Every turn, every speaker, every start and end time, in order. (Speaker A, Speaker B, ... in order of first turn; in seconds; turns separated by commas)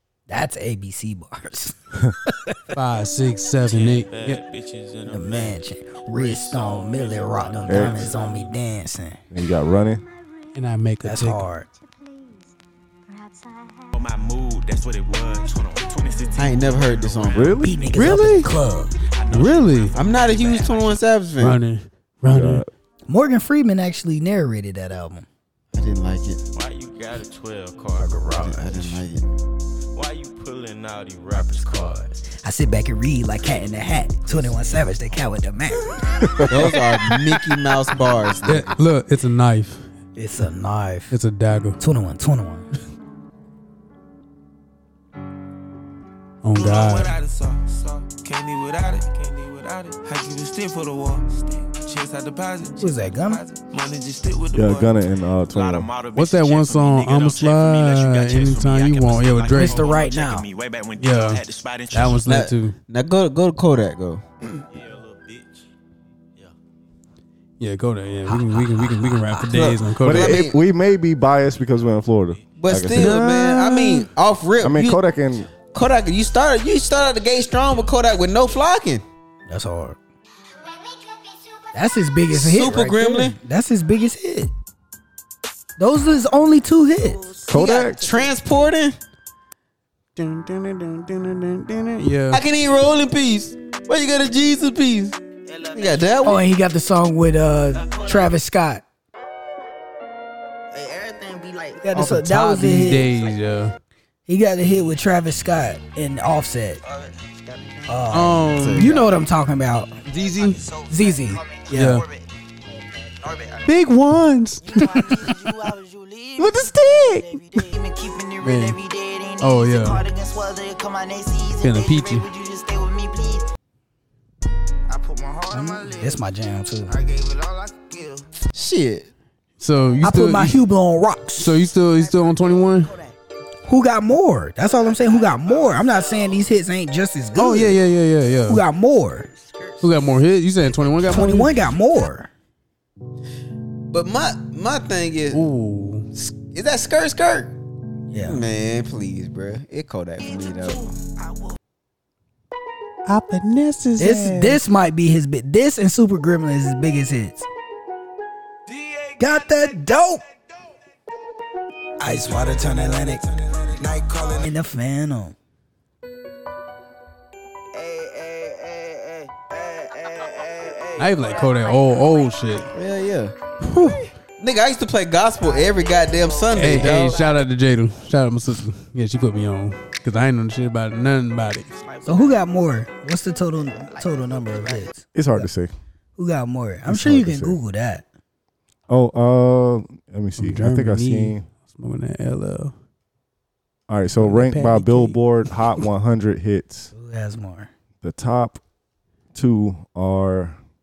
Speaker A: 0.3-1.8, Speaker A: 2.3-2.7, Speaker B: 2.7-4.4, Speaker C: 3.6-5.6, Speaker A: 5.1-9.2, Speaker C: 6.1-8.5, Speaker D: 7.7-8.1, Speaker D: 9.3-10.0, Speaker B: 10.5-11.5, Speaker A: 11.0-11.7, Speaker C: 13.9-21.0, Speaker E: 16.4-17.6, Speaker D: 17.3-17.8, Speaker A: 17.6-19.0, Speaker B: 17.9-18.5, Speaker B: 19.3-20.0, Speaker E: 19.9-21.6, Speaker B: 21.4-22.6, Speaker D: 22.3-22.7, Speaker A: 23.1-25.3, Speaker E: 25.7-26.4, Speaker C: 26.5-28.7, Speaker A: 27.9-29.0, Speaker E: 28.3-29.3, Speaker C: 29.9-32.1, Speaker A: 31.3-36.5, Speaker C: 34.2-35.3, Speaker E: 36.5-38.7, Speaker B: 38.5-39.9, Speaker A: 40.2-41.1, Speaker B: 41.1-41.8, Speaker A: 41.8-42.7, Speaker B: 46.4-47.1, Speaker C: 46.5-55.0, Speaker A: 52.8-53.4, Speaker D: 54.5-55.9, Speaker C: 55.5-62.3, Speaker B: 56.1-59.8, Speaker A: 59.5-60.5, Speaker B: 61.0-62.8, Speaker E: 62.2-64.2, Speaker C: 64.7-65.7, Speaker B: 67.6-70.4, Speaker A: 68.3-69.8, Speaker E: 69.6-70.5, Speaker D: 70.0-73.6, Speaker C: 71.4-72.6, Speaker E: 72.6-75.0, Speaker A: 73.0-73.3, Speaker D: 74.6-75.5, Speaker E: 75.7-79.0, Speaker A: 79.5-80.0, Speaker A: 81.7-84.5, Speaker E: 82.3-83.4, Speaker A: 85.8-87.3, Speaker C: 87.2-88.4, Speaker D: 87.5-88.0, Speaker E: 87.6-89.0, Speaker B: 90.2-92.4, Speaker E: 92.3-95.2, Speaker C: 95.5-96.4, Speaker E: 95.7-96.5, Speaker A: 96.2-98.8, Speaker C: 97.8-98.3, Speaker C: 100.7-101.8, Speaker A: 101.8-103.1, Speaker B: 101.9-103.8, Speaker A: 104.3-106.8, Speaker C: 106.9-108.0, Speaker A: 107.9-109.9, Speaker B: 108.1-109.0, Speaker E: 108.6-109.0, Speaker B: 110.1-110.6, Speaker C: 110.2-112.3, Speaker A: 110.9-112.0, Speaker B: 111.7-112.1, Speaker C: 113.1-113.8, Speaker B: 113.7-115.6, Speaker C: 114.6-123.4, Speaker B: 116.4-117.7, Speaker B: 118.4-118.8, Speaker B: 119.4-120.0, Speaker B: 121.6-122.3, Speaker C: 124.9-126.2, Speaker A: 125.5-127.0, Speaker C: 126.9-128.3, Speaker E: 128.5-129.1, Speaker B: 129.6-130.6, Speaker A: 130.0-131.6, Speaker B: 131.4-132.9, Speaker C: 132.0-132.4, Speaker A: 133.7-137.8, Speaker C: 134.7-136.3, Speaker B: 137.3-138.6, Speaker A: 138.5-139.3, Speaker B: 139.8-141.5, Speaker A: 141.0-142.3, Speaker E: 143.9-145.4, Speaker B: 145.3-146.1, Speaker E: 146.2-147.5, Speaker A: 148.1-148.4, Speaker E: 148.2-150.9, Speaker B: 153.1-154.6, Speaker A: 154.0-157.5, Speaker C: 158.7-159.6, Speaker A: 159.2-160.2, Speaker A: 162.0-163.3, Speaker C: 162.2-164.3, Speaker A: 164.2-165.3, Speaker C: 167.7-171.8, Speaker B: 171.0-172.7, Speaker E: 172.7-173.3, Speaker B: 173.6-174.1, Speaker E: 174.4-177.2, Speaker B: 176.6-181.7, Speaker C: 181.8-182.4, Speaker A: 182.0-185.5, Speaker D: 185.1-185.7, Speaker A: 186.2-188.1, Speaker D: 186.9-187.6, Speaker D: 188.9-191.4, Speaker B: 190.4-192.7, Speaker D: 193.9-196.9, Speaker B: 194.2-195.2, Speaker A: 196.9-197.7, Speaker D: 198.0-198.6, Speaker D: 199.3-200.6